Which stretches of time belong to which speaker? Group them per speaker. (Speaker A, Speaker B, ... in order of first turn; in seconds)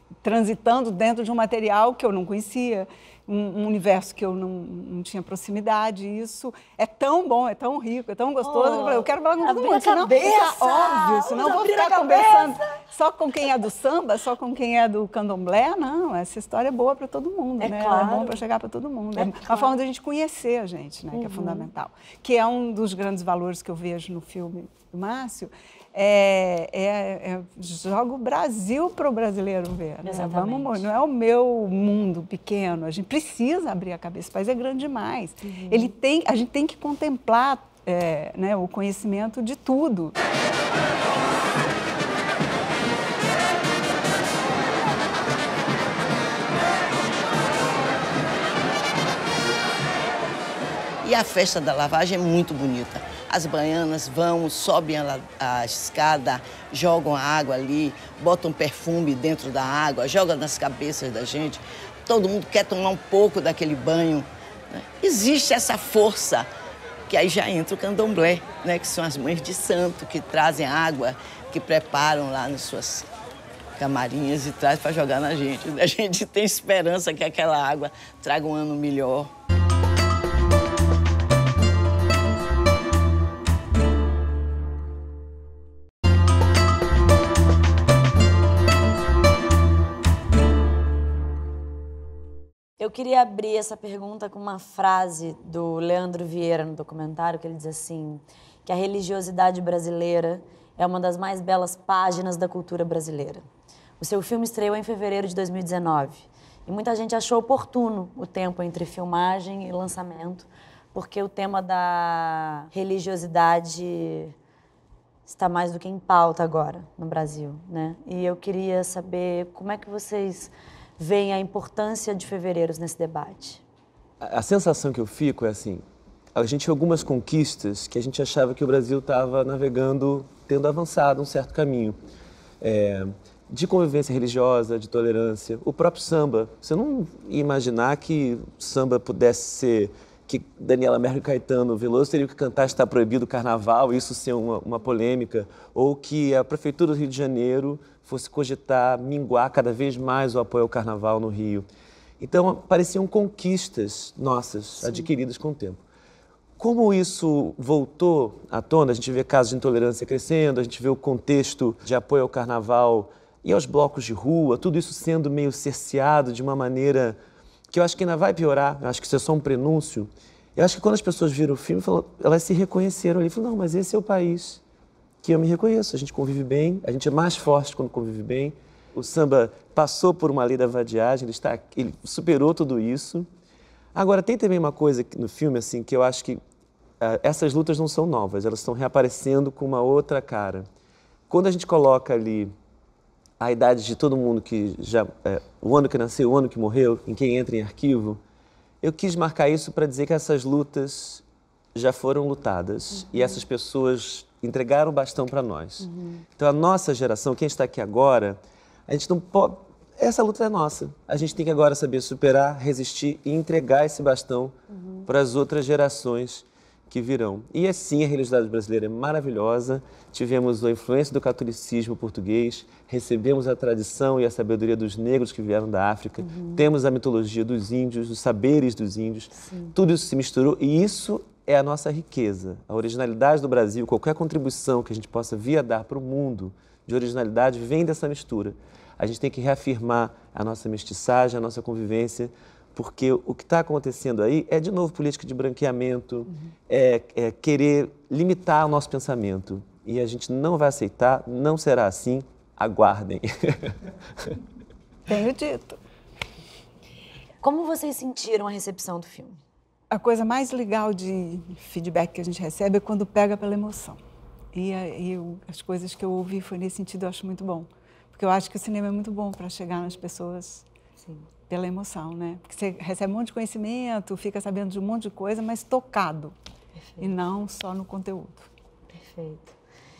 Speaker A: 0.2-40.1, 255.1-255.8, 259.9-264.0, 264.5-270.6, 271.5-276.3, 277.0-278.5
Speaker B: 8.4-12.7, 17.6-18.4, 19.2-19.7, 21.1-21.7, 30.0-30.9, 35.4-35.9, 92.8-103.5, 104.0-114.3, 115.2-123.6, 154.8-155.1, 202.9-203.4, 205.8-206.2, 214.7-215.1, 226.2-226.7, 229.3-229.8, 257.4-259.4, 271.0-271.2, 278.9-279.6
Speaker C: 51.0-66.5, 67.1-73.1, 73.8-79.3
Speaker D: 124.2-132.0, 132.6-151.7, 152.2-155.8, 156.6-167.2, 167.7-174.6, 175.2-183.3, 183.9-186.4, 187.0-190.7, 191.3-192.5, 193.4-198.2, 198.8-201.2, 201.7-214.5, 215.1-254.4